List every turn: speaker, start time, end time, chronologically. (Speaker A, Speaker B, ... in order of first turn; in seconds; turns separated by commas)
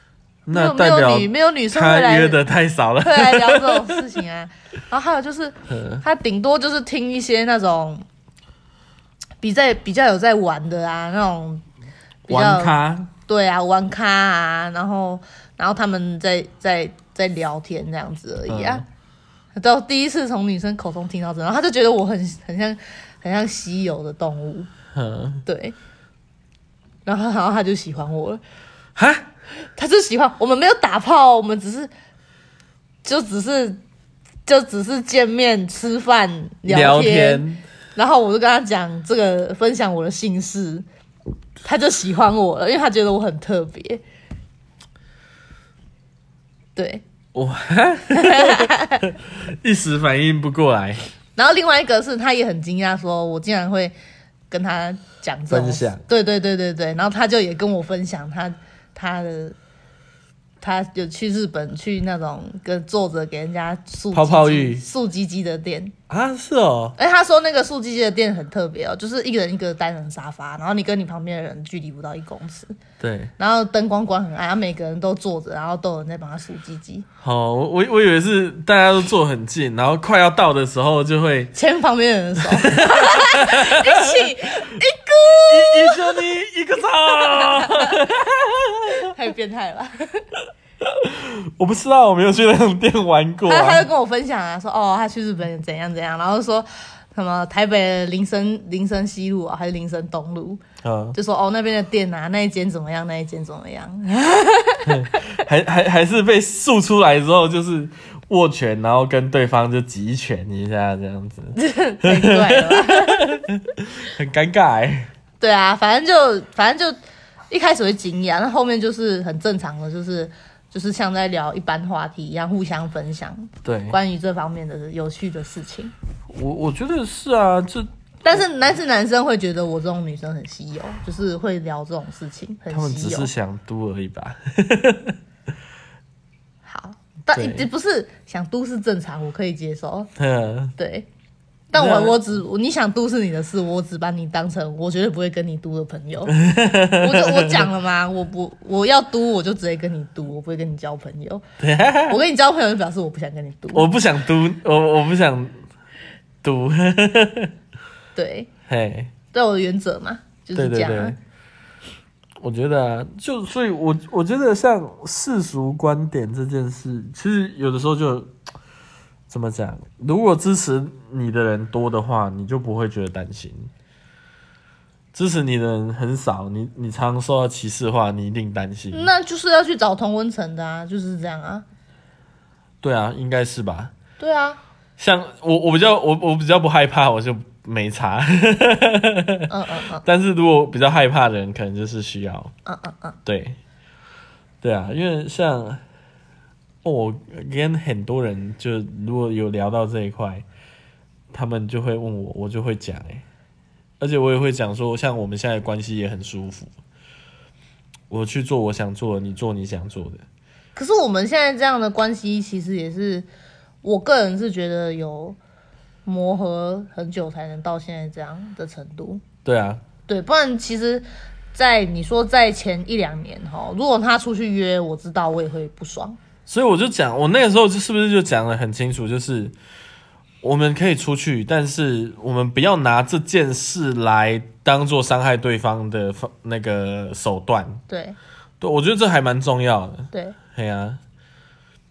Speaker A: 0.5-4.1, Speaker B: 0.5-2.4, Speaker B: 3.0-8.0, Speaker A: 5.7-6.0, Speaker B: 9.4-11.7, Speaker B: 12.2-18.8, Speaker A: 12.3-13.1, Speaker A: 18.5-18.8, Speaker B: 19.5-24.7, Speaker A: 24.9-25.4, Speaker B: 25.4-25.8, Speaker B: 27.0-28.4, Speaker A: 28.9-29.3, Speaker B: 29.7-31.9, Speaker B: 33.0-33.8, Speaker B: 34.5-37.4, Speaker A: 36.7-37.6, Speaker B: 37.9-40.8, Speaker B: 41.6-44.0, Speaker B: 46.8-47.0, Speaker A: 47.3-51.0, Speaker B: 48.1-49.0, Speaker B: 51.4-54.0, Speaker B: 54.5-59.5, Speaker A: 55.5-56.0, Speaker B: 60.6-65.9, Speaker A: 64.1-64.8, Speaker A: 66.1-67.0, Speaker B: 67.0-72.8, Speaker A: 73.0-73.3, Speaker B: 73.4-77.0, Speaker A: 77.2-81.5, Speaker B: 81.5-86.3, Speaker A: 82.5-89.1, Speaker B: 87.2-88.0, Speaker B: 89.0-90.2, Speaker A: 90.8-93.9, Speaker B: 93.5-100.6, Speaker A: 100.8-101.2, Speaker B: 101.1-105.2, Speaker A: 104.8-115.1, Speaker B: 111.5-113.3, Speaker B: 115.4-117.0, Speaker B: 117.5-125.9, Speaker A: 123.6-124.0, Speaker A: 126.3-127.9, Speaker B: 128.2-133.3, Speaker A: 132.7-135.2, Speaker B: 136.7-140.1, Speaker A: 137.3-137.7, Speaker A: 140.2-140.7, Speaker B: 140.8-141.1, Speaker B: 141.7-146.3, Speaker A: 141.7-142.2, Speaker A: 146.3-147.7, Speaker B: 147.0-151.4, Speaker A: 151.6-152.2, Speaker B: 152.1-153.8, Speaker A: 153.7-155.6, Speaker A: 156.4-157.5, Speaker B: 158.1-158.5, Speaker A: 158.7-159.1, Speaker B: 159.3-161.2, Speaker A: 160.5-161.2, Speaker A: 162.4-168.3, Speaker A: 169.3-173.7, Speaker A: 175.1-179.1, Speaker B: 178.9-181.6, Speaker A: 182.8-183.9, Speaker B: 184.2-184.6, Speaker A: 185.0-189.5, Speaker B: 189.5-190.0, Speaker A: 190.0-192.5, Speaker B: 192.7-193.2, Speaker A: 193.2-193.6, Speaker A: 194.6-195.8, Speaker A: 196.8-200.4, Speaker A: 201.3-203.2, Speaker A: 204.0-206.7, Speaker A: 208.1-210.2, Speaker B: 210.7-213.3, Speaker B: 213.8-215.4, Speaker B: 216.0-219.2, Speaker A: 219.4-219.8, Speaker B: 220.1-226.2, Speaker A: 226.4-229.5, Speaker A: 230.4-237.8, Speaker B: 237.9-238.2, Speaker A: 238.6-241.0, Speaker B: 240.1-240.4